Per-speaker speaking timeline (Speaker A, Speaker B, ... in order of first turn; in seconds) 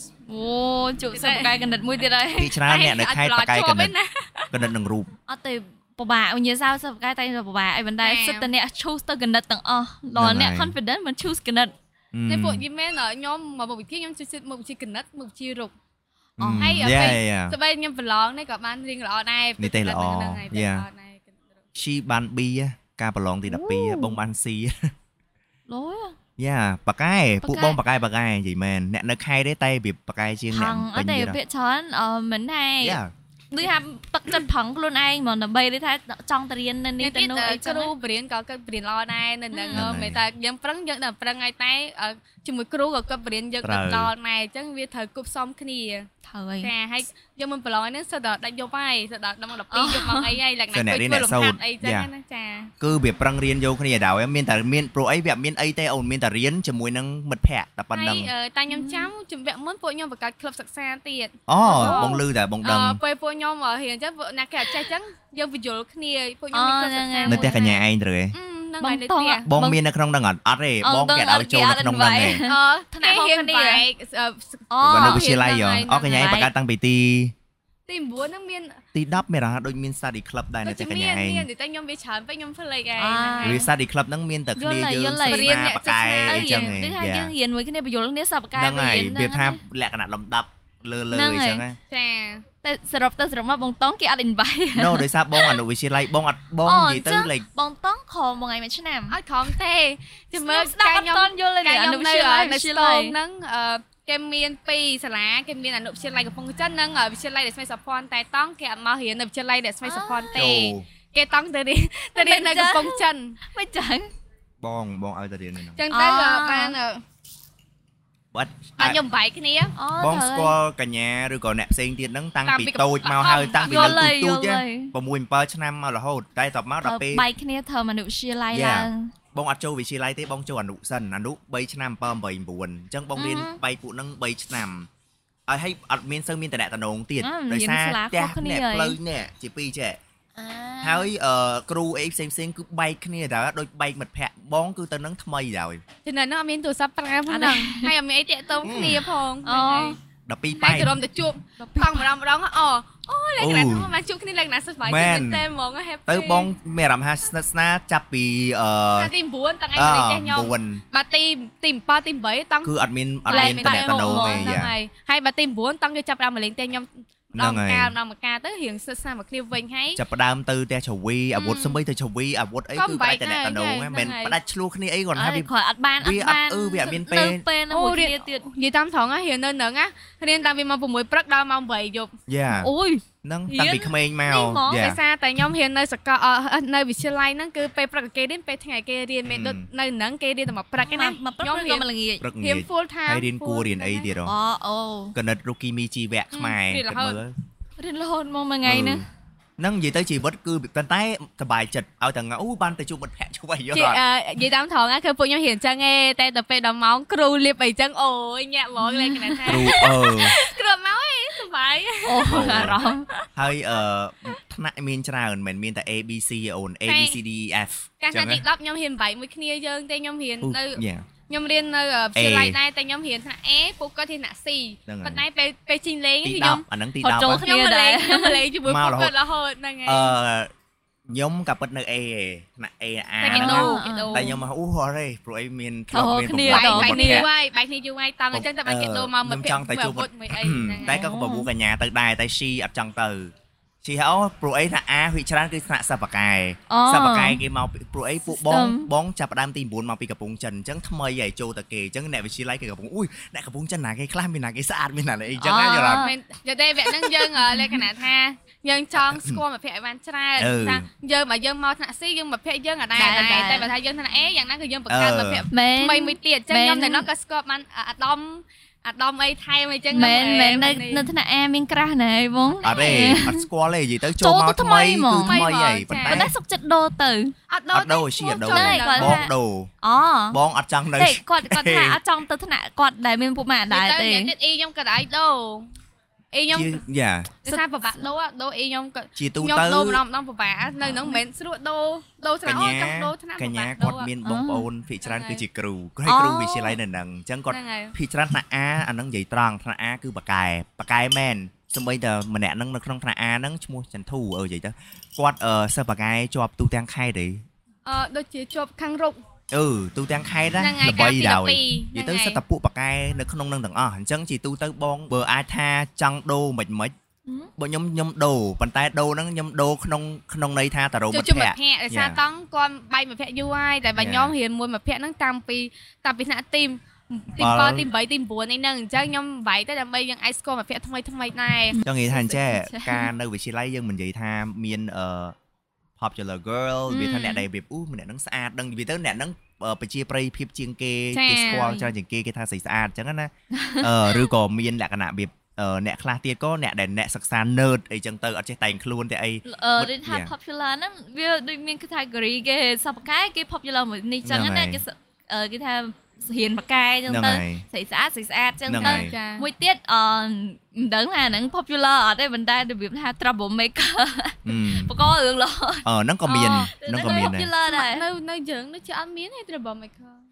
Speaker A: 0.2-2.6, 5.3-11.7, 16.4-16.9, 23.5-24.2, 25.7-26.2, 27.4-27.8, 30.5-33.0, 33.5-37.9, 39.5-40.0, 46.2-46.7, 49.7-50.4, 58.7-59.1, 61.6-62.2, 66.5-67.8, 68.8-69.8, 70.8-73.8, 74.7-75.4, 75.9-76.5, 83.0-83.7, 84.5-85.6, 86.2-89.6, 91.1-91.6, 92.6-95.6, 96.6-99.2, 100.3-103.2, 109.8-110.4, 112.2-114.1, 115.9-116.8, 119.8-120.5, 123.6-124.9, 126.8-129.1, 133.1-133.6, 137.2-139.0, 140.3-141.1, 147.3-147.9, 149.4-150.0, 151.6-152.1, 163.3-164.6, 175.1-178.5, 182.5-184.9, 190.8-192.3, 194.2-195.1, 197.8-199.0, 208.8-209.9, 212.0-213.1, 227.0-228.4, 233.2-234.4, 235.9-237.3, 240.8-241.5, 246.7-247.4, 248.3-248.9, 255.4-256.1, 257.3-257.8, 262.9-263.7, 265.5-267.1, 269.9-273.5, 274.1-275.4, 276.0-277.3, 278.4-280.4, 280.9-284.3, 287.5-288.0, 290.8-291.2, 294.2-294.7, 296.0-296.8, 331.7-333.1, 336.9-337.4, 341.4-341.9, 343.5-344.3, 349.4-368.1
Speaker B: 1.1-1.5, 2.6-4.5, 8.0-8.5, 12.3-15.7, 16.6-21.6, 37.0-46.1, 46.6-52.7, 57.9-67.6, 68.3-69.5, 72.4-76.2, 77.9-78.8, 80.6-83.7, 85.2-86.7, 91.9-92.4, 99.1-113.4, 115.8-117.0, 118.8-119.7, 122.5-124.0, 146.0-150.0, 150.6-156.5, 159.0-162.7, 163.2-170.0, 171.3-171.8, 172.8-174.4, 177.7-182.1, 184.7-191.8, 192.4-194.1, 196.3-197.2, 203.7-213.2, 216.9-217.2, 218.0-226.6, 227.2-230.1, 233.2-234.3, 236.5-241.0, 255.7-271.0, 272.6-272.9, 275.2-276.2, 277.5-279.2, 283.7-285.7, 286.3-286.8, 287.4-294.1, 295.0-295.4, 297.5-297.9, 307.8-309.2, 310.6-312.4, 321.1-331.8, 341.1-341.7, 358.8-359.5, 366.3-370.2
Speaker C: 2.4-3.9, 4.5-5.1, 10.2-10.7, 12.1-12.6, 16.4-17.6, 19.6-20.9, 21.7-24.9, 26.4-31.4, 32.8-33.1, 39.7-40.2, 43.6-44.1, 50.7-52.1, 52.8-58.3, 61.5-63.0, 67.2-68.3, 69.5-72.4, 74.8-77.3, 78.9-81.5, 83.4-87.3, 88.5-91.8, 94.7-97.5, 110.3-110.9, 114.6-115.8, 118.3-119.0, 120.0-127.2, 128.5-134.9, 135.5-140.0, 140.8-145.8, 148.6-149.0, 150.2-150.9, 153.4-153.9, 154.8-155.4, 156.1-159.1, 159.7-160.8, 162.6-164.7, 167.3-167.9, 169.9-175.5, 176.0-177.4, 182.3-182.7, 183.2-185.0, 189.2-189.7, 192.2-194.3, 195.1-197.3, 198.6-199.0, 199.6-204.0, 209.5-210.4, 212.2-212.8, 213.3-218.4, 220.4-221.1, 222.2-222.6, 224.9-225.2, 226.2-227.4, 228.6-229.1, 229.8-230.5, 231.1-237.3, 238.3-243.3, 243.8-256.1, 259.0-259.4, 260.4-260.8, 264.9-265.4, 272.6-276.3, 277.7-279.7, 280.3-282.0, 286.5-287.3, 289.1-290.0, 292.4-307.4, 309.5-316.9, 317.6-322.2, 324.0-324.3, 327.4-327.9, 331.8-335.3, 336.0-350.3, 354.2-354.8, 357.1-357.6, 358.7-359.1, 364.4-364.9, 365.8-367.5